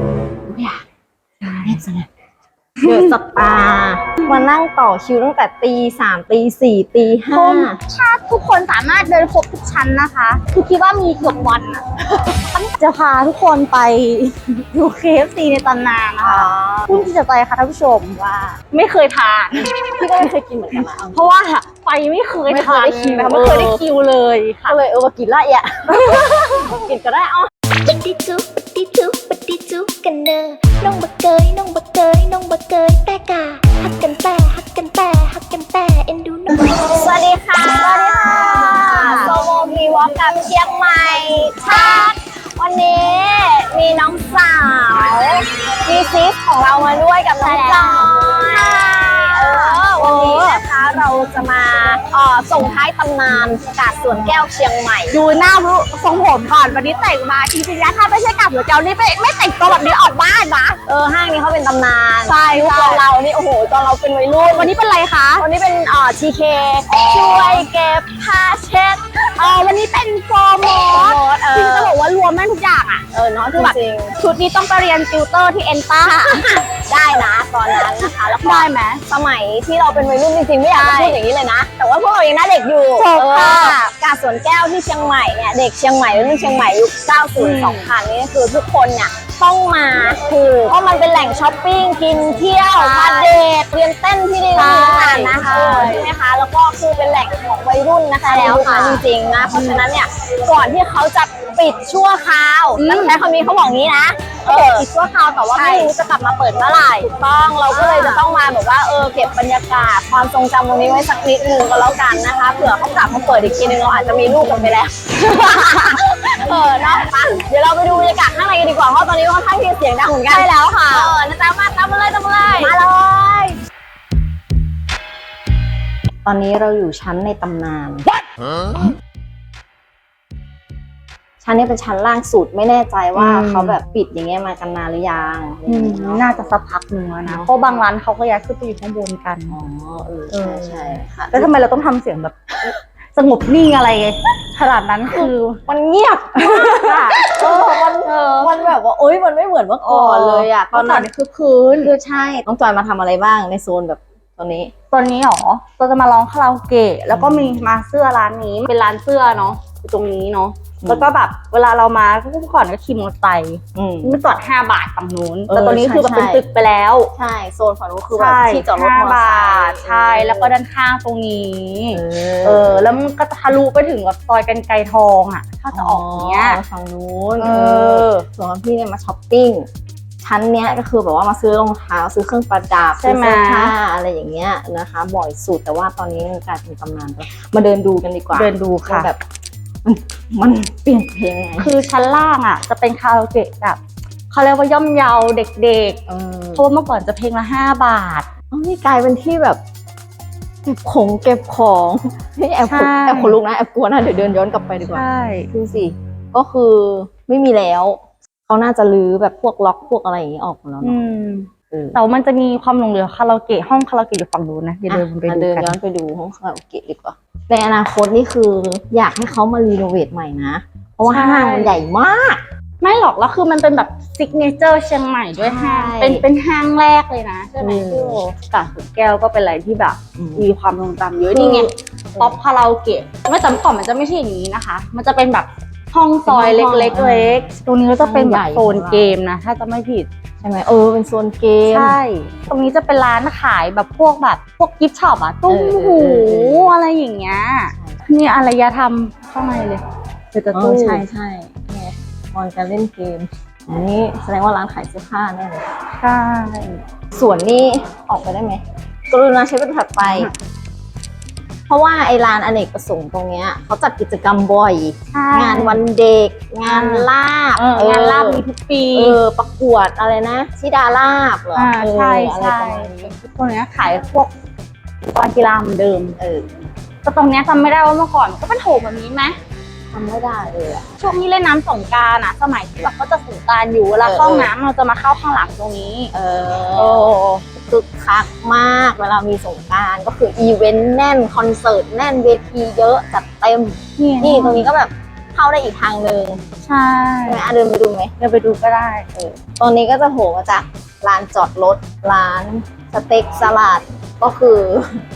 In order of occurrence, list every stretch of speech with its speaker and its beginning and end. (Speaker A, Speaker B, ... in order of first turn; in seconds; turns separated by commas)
Speaker A: 0.5-0.8, Speaker B: 1.4-1.8, Speaker A: 1.5-2.1, Speaker B: 2.8-3.1, Speaker A: 2.8-7.8, Speaker B: 7.3-11.8, Speaker B: 12.5-18.2, Speaker A: 16.2-17.1, Speaker A: 18.1-18.6, Speaker B: 18.7-19.7, Speaker A: 19.9-21.3, Speaker B: 21.1-24.8, Speaker A: 22.5-23.8, Speaker A: 24.6-25.9, Speaker B: 25.9-26.8, Speaker A: 26.7-27.5, Speaker C: 27.8-36.9, Speaker A: 36.7-55.2, Speaker B: 37.6-39.4, Speaker B: 47.4-50.6, Speaker B: 55.1-60.8, Speaker A: 60.9-64.7, Speaker B: 62.2-63.0, Speaker B: 64.4-65.4, Speaker A: 65.4-69.1, Speaker B: 66.9-67.7, Speaker B: 69.3-73.0, Speaker A: 70.7-71.9, Speaker A: 73.1-74.2, Speaker B: 73.5-76.7, Speaker A: 76.8-104.9, Speaker B: 77.8-79.0, Speaker B: 80.7-81.2, Speaker B: 83.0-83.8, Speaker B: 87.3-87.9, Speaker B: 92.6-93.4, Speaker B: 94.5-96.1, Speaker B: 98.2-99.8, Speaker B: 102.8-103.2, Speaker B: 104.4-106.0, Speaker A: 105.5-122.8, Speaker B: 107.7-108.2, Speaker B: 115.4-115.7, Speaker B: 120.3-121.1, Speaker B: 122.6-123.6, Speaker A: 126.2-128.1, Speaker A: 131.4-136.6, Speaker B: 133.1-133.8, Speaker B: 135.7-139.5, Speaker A: 137.2-137.6, Speaker A: 139.5-141.5, Speaker B: 140.3-145.6, Speaker A: 145.1-151.1, Speaker B: 146.4-148.7, Speaker B: 149.8-152.3, Speaker A: 151.8-154.7, Speaker B: 154.9-167.1, Speaker A: 157.1-157.8, Speaker A: 160.8-161.1, Speaker A: 163.7-164.2, Speaker A: 165.5-166.4, Speaker A: 167.1-170.5, Speaker B: 168.1-176.6, Speaker A: 171.9-172.9, Speaker A: 175.7-179.7, Speaker B: 177.4-178.2, Speaker A: 180.2-189.2, Speaker B: 183.0-183.7, Speaker B: 188.3-189.1, Speaker A: 189.8-191.7, Speaker B: 191.6-193.8, Speaker B: 194.3-196.0, Speaker A: 196.1-196.7, Speaker B: 196.5-198.3, Speaker A: 198.5-199.6, Speaker A: 200.7-211.0, Speaker B: 202.7-203.4, Speaker B: 204.9-205.5, Speaker B: 210.8-215.7, Speaker A: 211.7-212.0, Speaker A: 214.9-222.4, Speaker B: 221.0-221.7, Speaker B: 222.8-240.1, Speaker A: 225.4-226.2, Speaker A: 227.6-228.2, Speaker A: 230.2-230.5, Speaker A: 231.3-232.4, Speaker A: 236.2-239.2, Speaker A: 240.4-242.0, Speaker B: 241.7-251.0, Speaker A: 245.5-246.7, Speaker A: 247.7-248.0, Speaker A: 250.5-255.7, Speaker B: 256.0-256.8, Speaker A: 257.1-260.3, Speaker B: 260.1-260.3, Speaker A: 261.7-273.1, Speaker B: 265.1-265.8, Speaker B: 266.6-269.2, Speaker B: 271.5-274.3, Speaker B: 275.1-276.2, Speaker A: 276.2-276.4, Speaker B: 277.0-279.4, Speaker A: 279.9-280.9, Speaker B: 281.0-286.1, Speaker A: 284.0-284.5, Speaker A: 286.1-296.4, Speaker B: 286.8-287.4, Speaker B: 294.0-294.6, Speaker B: 296.6-297.4, Speaker A: 297.2-298.1, Speaker B: 298.2-299.1, Speaker A: 299.1-304.9